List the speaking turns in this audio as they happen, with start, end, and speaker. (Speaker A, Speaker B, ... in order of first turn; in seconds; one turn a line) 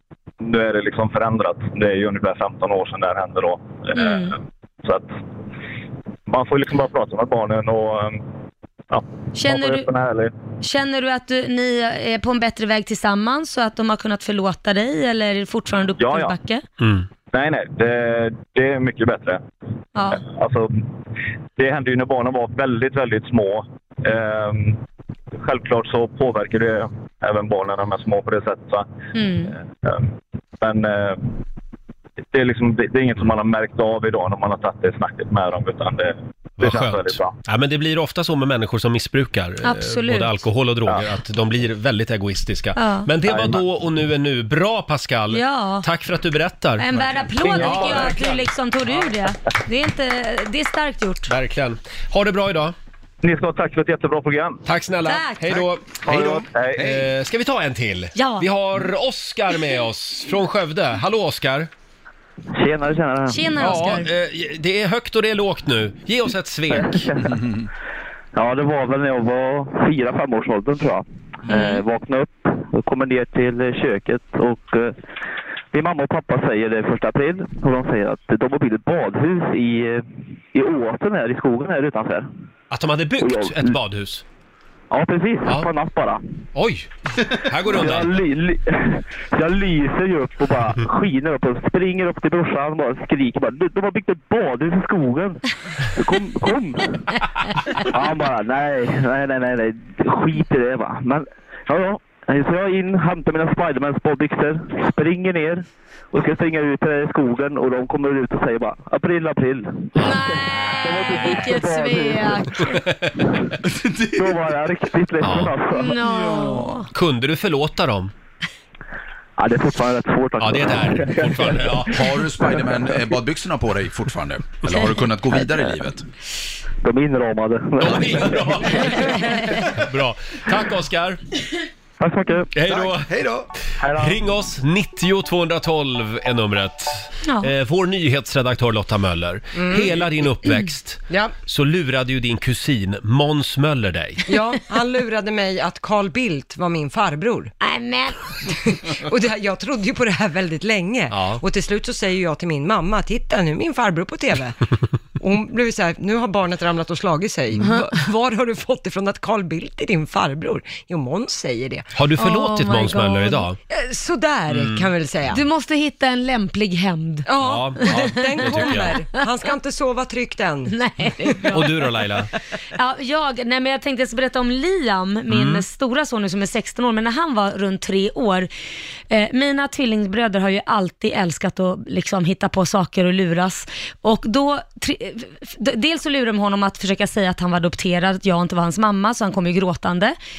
Speaker A: 0.4-5.1
Speaker B: 4.0-4.3
Speaker A: 6.3-8.2
Speaker A: 8.9-10.3
Speaker B: 9.4-9.9
Speaker B: 10.6-16.6
Speaker A: 16.0-16.3
Speaker C: 16.8-17.1
Speaker A: 17.3-19.4
Speaker B: 19.9-20.2
Speaker A: 20.1-20.8
Speaker A: 21.6-24.8
Speaker A: 25.4-28.9
Speaker B: 29.1-29.5
Speaker A: 29.5-30.1
Speaker A: 30.6-31.2
Speaker A: 32.3-37.3
Speaker C: 36.6-46.9
Speaker B: 39.6-40.4
Speaker B: 42.8-43.1
Speaker A: 43.3-43.6
Speaker B: 45.3-45.9
Speaker B: 46.8-51.3
Speaker C: 47.4-49.0
Speaker C: 51.3-52.8
Speaker A: 53.2-54.6
Speaker C: 54.6-55.9
Speaker B: 55.0-55.6
Speaker D: 55.6-57.1
Speaker A: 56.0-56.8
Speaker C: 56.8-61.7
Speaker B: 58.1-58.5
Speaker E: 62.6-63.5
Speaker B: 63.3-64.1
Speaker C: 63.6-67.0
Speaker E: 66.8-67.3
Speaker E: 68.3-75.0
Speaker B: 71.5-71.8
Speaker E: 75.7-80.0
Speaker E: 80.5-82.3
Speaker C: 82.7-84.2
Speaker E: 83.2-83.8
Speaker E: 84.9-86.2
Speaker C: 86.5-88.2
Speaker E: 87.6-95.4
Speaker E: 95.9-96.9
Speaker E: 97.8-112.7
Speaker C: 110.0-110.2
Speaker B: 110.0-112.8
Speaker C: 112.6-113.4
Speaker D: 113.6-114.3
Speaker E: 114.1-116.0
Speaker C: 115.2-115.5
Speaker B: 115.7-116.9
Speaker D: 116.0-116.9
Speaker C: 116.9-118.1
Speaker E: 119.4-121.8
Speaker C: 120.4-122.2
Speaker D: 121.9-126.0
Speaker E: 126.8-129.0
Speaker C: 127.8-131.2
Speaker B: 129.1-129.4
Speaker E: 132.0-132.5
Speaker C: 132.5-133.1
Speaker D: 132.6-133.5
Speaker E: 133.8-134.2
Speaker C: 133.8-144.2
Speaker F: 139.6-139.9
Speaker F: 144.3-147.5
Speaker B: 147.6-148.5
Speaker F: 148.7-154.6
Speaker C: 151.1-151.4
Speaker F: 155.2-161.9
Speaker B: 157.6-157.9
Speaker C: 161.9-163.6
Speaker B: 162.2-163.5
Speaker F: 163.7-165.4
Speaker C: 164.5-164.9
Speaker B: 165.3-169.2
Speaker F: 167.3-170.7
Speaker C: 167.4-168.9
Speaker B: 170.7-172.1
Speaker F: 171.3-171.5
Speaker C: 171.5-172.3
Speaker B: 172.8-178.5
Speaker C: 175.3-175.6
Speaker B: 179.1-190.2